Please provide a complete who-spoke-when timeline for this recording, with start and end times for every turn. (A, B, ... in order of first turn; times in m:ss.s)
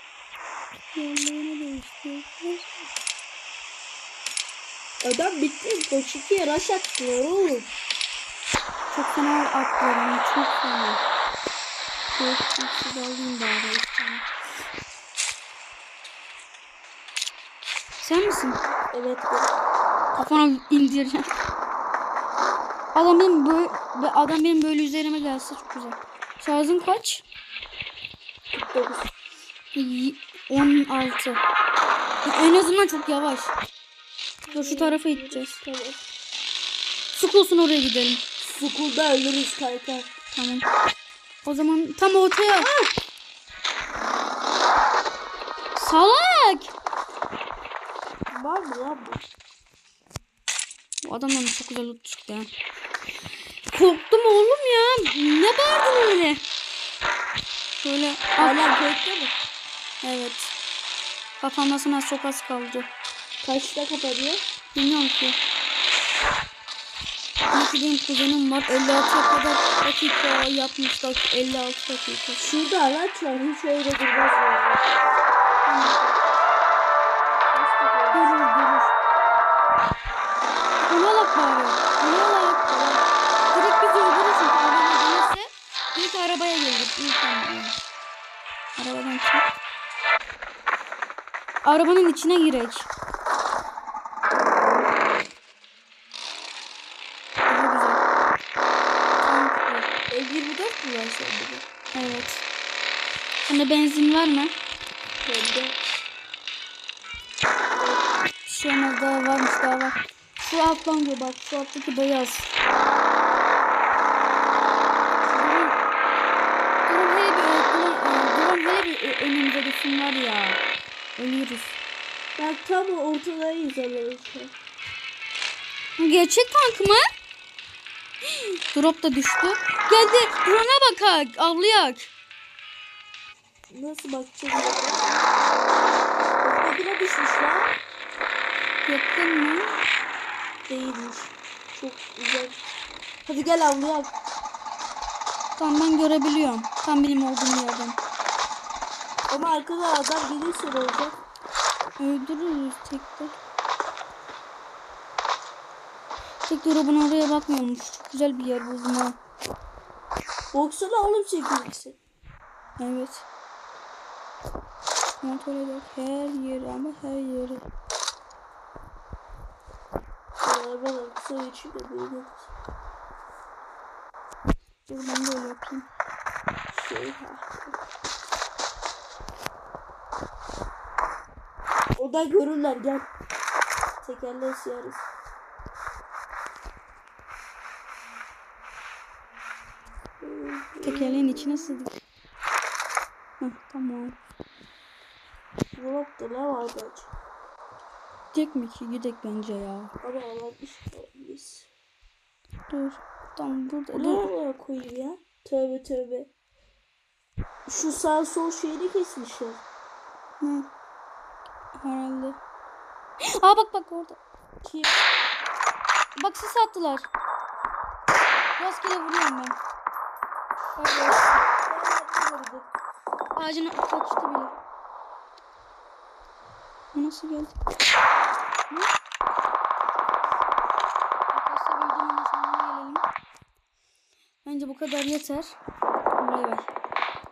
0:01.0-0:02.7 A
0:05.0-0:07.7 B
0:08.9-0:11.0 A
0:12.1-0:14.3 A
0:18.0-0:18.6 A
0:18.9-0:19.5 B
0:20.1-0:21.3 A
0:22.9-0:27.2 A
0:28.5-0:29.1 B
0:29.8-0:31.4 A
0:32.2-0:33.5 A
0:34.5-0:36.0 B
0:34.5-0:35.6 A
0:37.1-0:38.2 A
0:38.4-0:40.1 B
0:40.3-0:40.7 A
0:41.4-0:42.7 A
0:42.5-0:42.9 B
0:45.8-0:46.7 A
0:48.3-0:49.2 B
0:51.0-0:52.5 A
0:53.7-0:56.4 A
0:57.8-0:58.6 A
0:58.4-0:59.3 B
1:00.0-1:00.5 A
1:01.4-1:02.9 A
1:03.4-1:04.4 B
1:04.8-1:05.4 A
1:07.5-1:12.5 A
1:12.4-1:14.9 B
1:15.6-1:16.2 A
1:17.5-1:18.3 B
1:18.1-1:18.9 A
1:20.8-1:22.6 A
1:22.7-1:23.1 B
1:23.5-1:27.8 A
1:28.8-1:29.5 A
1:31.6-1:32.9 A
1:37.5-1:38.0 A
1:39.2-1:39.9 A
1:40.1-1:41.6 B
1:41.9-1:42.4 A
1:43.4-1:44.6 A
1:45.2-1:46.0 B
1:47.7-1:48.0 B
1:48.4-1:52.5 A
1:55.2-1:55.8 A
1:56.9-2:00.6 A
2:01.2-2:01.8 A
2:02.4-2:04.5 B
2:06.0-2:07.0 A
2:08.2-2:12.1 A
2:13.7-2:15.2 B
2:16.4-2:17.8 B
2:18.9-2:19.8 A
2:20.6-2:22.6 B
2:23.2-2:24.1 B
2:25.6-2:28.0 A
2:29.3-2:31.2 B
2:32.0-2:33.4 A
2:36.4-2:39.2 A
2:40.5-2:42.0 B
2:42.8-2:43.3 A
2:45.2-2:47.6 A
2:50.4-2:52.5 B
2:54.9-2:55.9 A
2:56.7-2:57.8 B
3:02.0-3:03.1 B
3:04.0-3:05.1 B
3:10.2-3:11.8 B
3:10.8-3:12.0 A
3:13.4-3:14.2 A
3:15.8-3:17.1 B
3:18.3-3:19.9 A
3:20.0-3:21.7 B
3:22.7-3:24.3 A
3:23.9-3:26.3 B
3:27.7-3:29.6 B
3:30.4-3:30.7 A
3:31.8-3:32.4 A
3:33.2-3:34.2 A
3:34.6-3:35.0 B
3:36.2-3:37.1 A
3:38.6-3:39.6 A
3:40.8-3:41.2 A
3:41.0-3:42.7 B
3:43.4-3:44.5 A
3:46.9-3:47.6 A
3:51.3-3:53.0 A
3:54.4-3:55.6 A
3:56.2-3:56.7 A